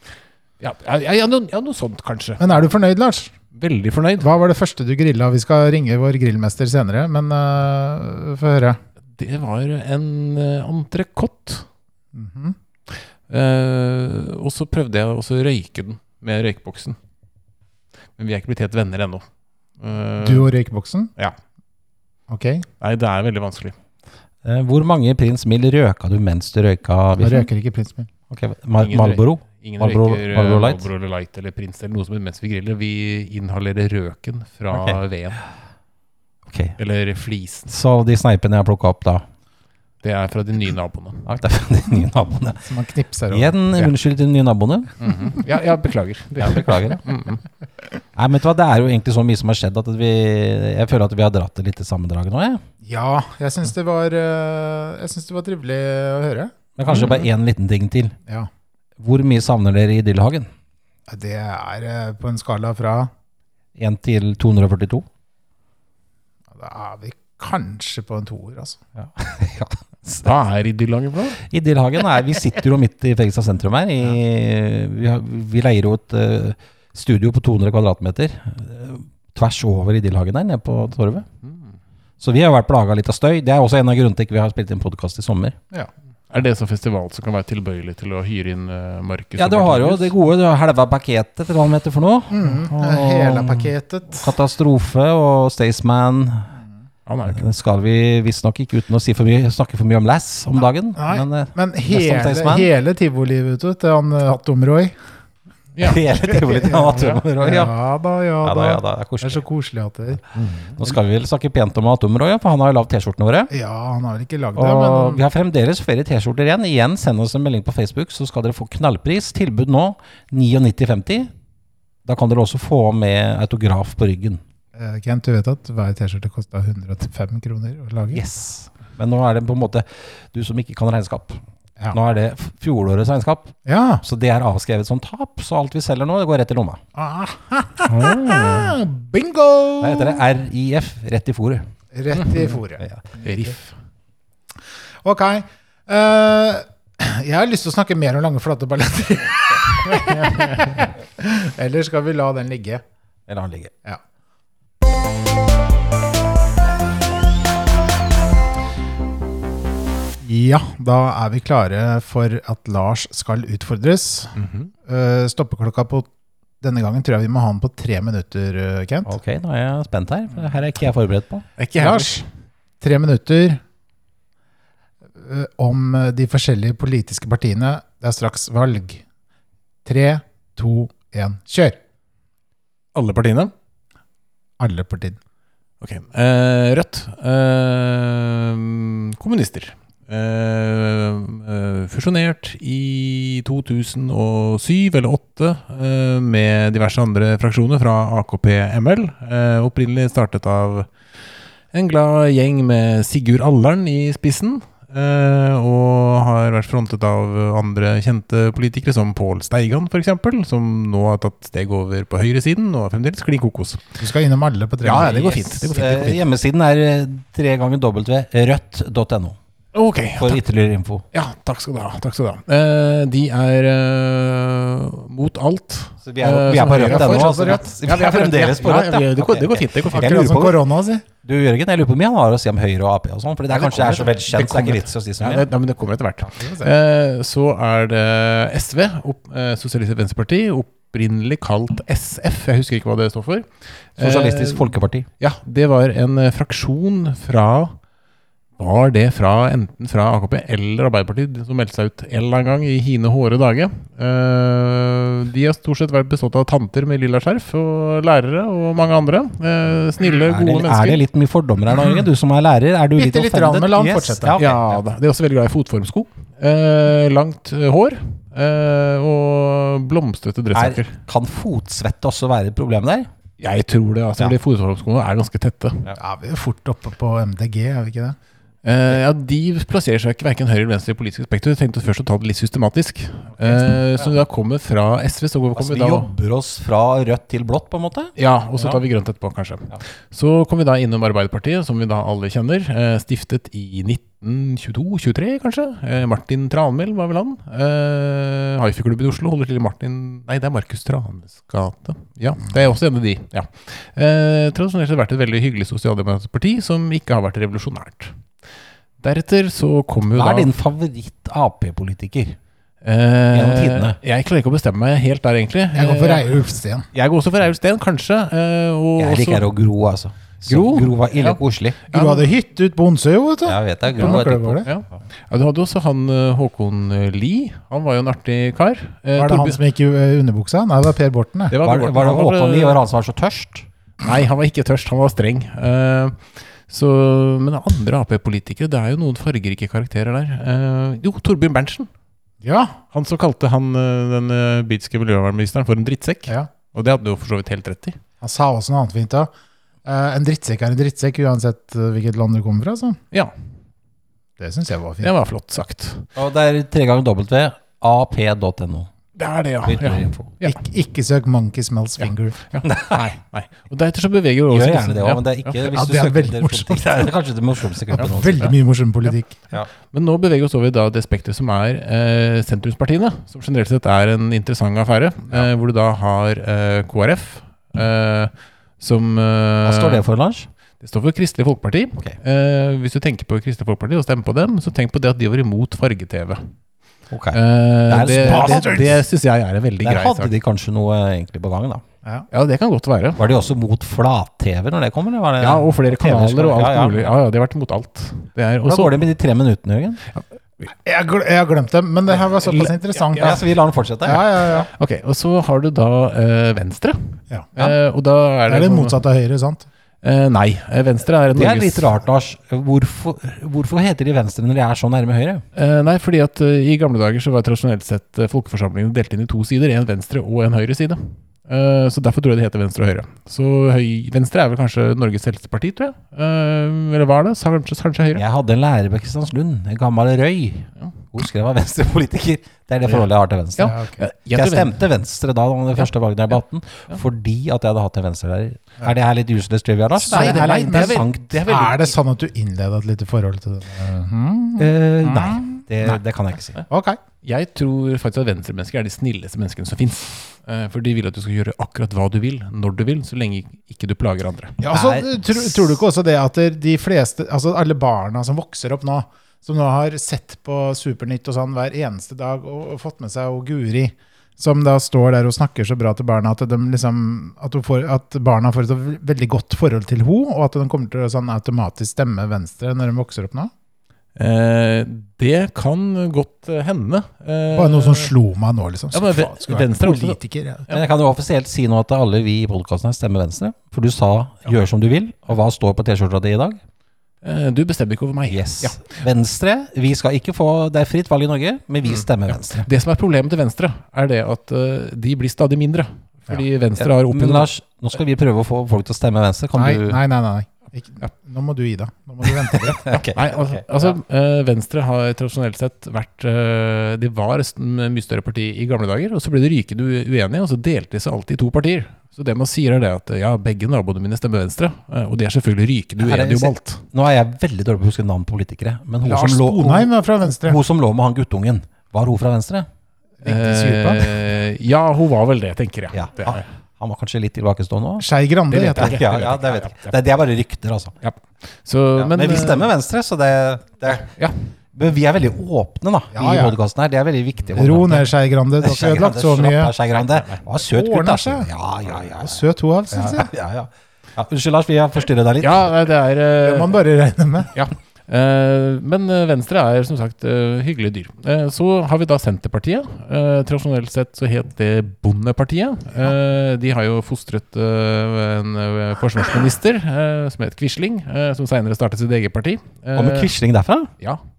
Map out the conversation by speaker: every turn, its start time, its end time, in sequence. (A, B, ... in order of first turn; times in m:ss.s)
0:00.6-0:02.6 A
0:02.4-0:03.3 B
0:03.5-0:04.3 A
0:04.2-0:08.8 B
0:09.2-0:11.6 A
0:12.1-0:12.6 B
0:12.9-0:17.0 A
0:18.2-0:19.2 A
0:19.8-0:20.5 A
0:20.2-0:21.1 B
0:22.3-0:22.6 B
0:22.8-0:23.8 A
0:24.4-0:27.5 C
0:27.2-0:28.1 B
0:28.3-0:30.8 C
0:28.8-0:35.4 A
0:34.7-0:35.0 C
0:36.5-0:36.8 C
0:36.8-0:37.7 A
0:37.7-0:39.2 C
0:40.0-0:41.3 A
0:41.2-0:42.7 C
0:42.6-0:43.9 B
0:43.3-0:45.0 C
0:45.0-0:47.4 A
0:46.4-0:47.0 C
0:48.2-0:52.6 C
0:52.8-0:57.2 B
0:56.8-0:58.2 C
0:59.0-1:00.5 C
1:01.1-1:03.1 B
1:03.8-1:05.0 C
1:06.5-1:08.8 B
1:09.0-1:10.3 C
1:10.2-1:11.4 A
1:11.4-1:21.2 C
1:21.4-1:21.7 A
1:22.2-1:25.6 C
1:26.3-1:30.1 A
1:29.4-1:36.5 C
1:32.3-1:34.3 B
1:37.0-1:37.4 A
1:37.3-1:42.7 C
1:40.9-1:45.0 B
1:45.7-1:46.0 A
1:45.8-1:47.7 C
1:46.3-1:50.2 B
1:48.4-1:49.4 C
1:50.3-1:50.8 A
1:50.8-1:53.5 C
1:53.5-1:55.2 B
1:54.6-2:01.3 C
2:02.0-2:04.4 C
2:04.7-2:08.2 B
2:08.1-2:16.8 C
2:13.6-2:14.0 B
2:16.9-2:20.2 B
2:17.8-2:18.8 A
2:19.8-2:21.7 C
2:21.9-2:22.8 B
2:22.1-2:22.5 A
2:22.8-2:23.0 C
2:23.2-2:23.8 A
2:25.0-2:32.8 B
2:29.9-2:30.7 A
2:33.3-2:33.7 C
2:40.2-2:44.3 B
2:44.3-2:44.7 A
2:44.8-2:46.1 B
2:46.6-2:49.1 B
2:49.0-2:51.4 C
2:51.6-2:52.2 A
2:51.8-2:52.2 B
2:52.8-2:53.6 B
2:55.2-2:59.0 B
2:59.8-3:01.8 B
3:02.9-3:03.5 A
3:04.6-3:05.2 B
3:05.8-3:20.9 A
3:21.7-3:33.8 A
3:34.0-3:35.7 B
3:34.8-3:36.2 A
3:35.7-3:39.4 C
3:39.7-3:40.4 A
3:40.1-3:41.0 C
3:41.1-3:50.4 A
3:46.0-3:50.6 C
3:46.7-3:47.6 B
3:49.9-3:51.0 B
3:51.2-3:55.5 C
3:53.5-4:07.8 A
3:56.3-3:56.7 B
4:04.0-4:05.1 C
4:08.6-4:21.0 A
4:20.2-4:24.8 C
4:22.9-4:24.4 B
4:24.4-4:31.0 A
4:30.5-4:33.1 C
4:33.4-4:35.9 A
4:36.0-4:38.2 B
4:38.6-4:46.1 A
4:45.6-4:48.8 C
4:48.2-5:08.2 A
5:09.0-5:10.5 A
5:10.1-5:12.4 C
5:12.8-5:16.4 A
5:13.3-5:14.0 C
5:15.7-5:16.9 B
5:16.9-5:19.5 A
5:19.0-5:21.9 C
5:20.4-5:22.3 A
5:21.9-5:24.7 B
5:23.4-5:24.9 C
5:24.0-5:29.6 A
5:29.2-5:31.5 B
5:31.5-5:32.8 A
5:31.6-5:33.7 C
5:34.0-5:41.9 A
5:42.4-5:42.8 B
5:42.9-5:48.0 A
5:48.2-5:49.3 B
5:49.8-5:53.0 B
5:54.4-5:55.1 B
5:55.0-5:56.1 A
5:56.2-5:58.9 C
5:59.2-6:00.6 A
5:59.6-6:00.3 C
6:00.4-6:02.4 B
6:02.0-6:05.6 A
6:02.6-6:03.0 C
6:04.5-6:08.6 C
6:05.6-6:07.1 B
6:07.9-6:09.4 B
6:09.9-6:20.0 A
6:19.6-6:20.5 C
6:20.8-6:26.5 A
6:27.1-6:28.9 C
6:27.3-6:30.3 A
6:28.2-6:29.0 B
6:29.8-6:31.8 C
6:32.3-6:33.2 A
6:33.2-6:37.1 C
6:35.4-6:39.0 A
6:38.6-6:40.0 C
6:40.1-6:40.6 A
6:40.7-6:43.4 B
6:42.1-6:43.4 A
6:43.2-6:44.6 C
6:44.0-6:44.7 B
6:44.7-6:49.0 A
6:48.5-6:49.7 B
6:50.0-6:51.9 A
6:51.3-6:55.4 C
6:55.5-7:08.2 A
7:08.1-7:13.8 C
7:12.8-7:14.8 A
7:13.7-7:14.0 B
7:14.3-7:21.8 C
7:20.0-7:26.0 B
7:20.0-7:21.9 A
7:24.6-7:26.6 C
7:26.7-7:27.0 B
7:27.2-7:34.6 A
7:34.6-7:53.5 B
7:34.7-7:35.8 C
7:54.2-7:58.1 A
7:57.5-8:00.7 B
7:58.9-8:00.2 A
8:00.7-8:06.6 C
8:07.2-8:08.9 A
8:08.3-8:12.7 C
8:11.8-8:17.5 A
8:16.8-8:20.0 C
8:19.6-8:22.9 B
8:22.2-8:24.0 C
8:23.1-8:36.8 A
8:36.0-8:42.7 C
8:39.0-8:40.6 B
8:43.2-8:44.1 B
8:43.2-8:46.5 A
8:45.9-8:48.1 C
8:48.0-8:49.0 B
8:48.5-8:50.0 A
8:48.7-8:51.0 C
8:51.0-8:52.7 A
8:52.0-8:54.1 C
8:54.2-8:54.5 A
8:54.7-9:05.7 C
8:56.1-8:56.6 B
8:57.6-8:59.7 B
9:00.0-9:00.4 A
9:00.6-9:01.5 B
9:02.0-9:03.3 B
9:05.4-9:06.8 A
9:06.4-9:07.5 B
9:07.5-9:23.3 A
9:22.9-9:23.9 C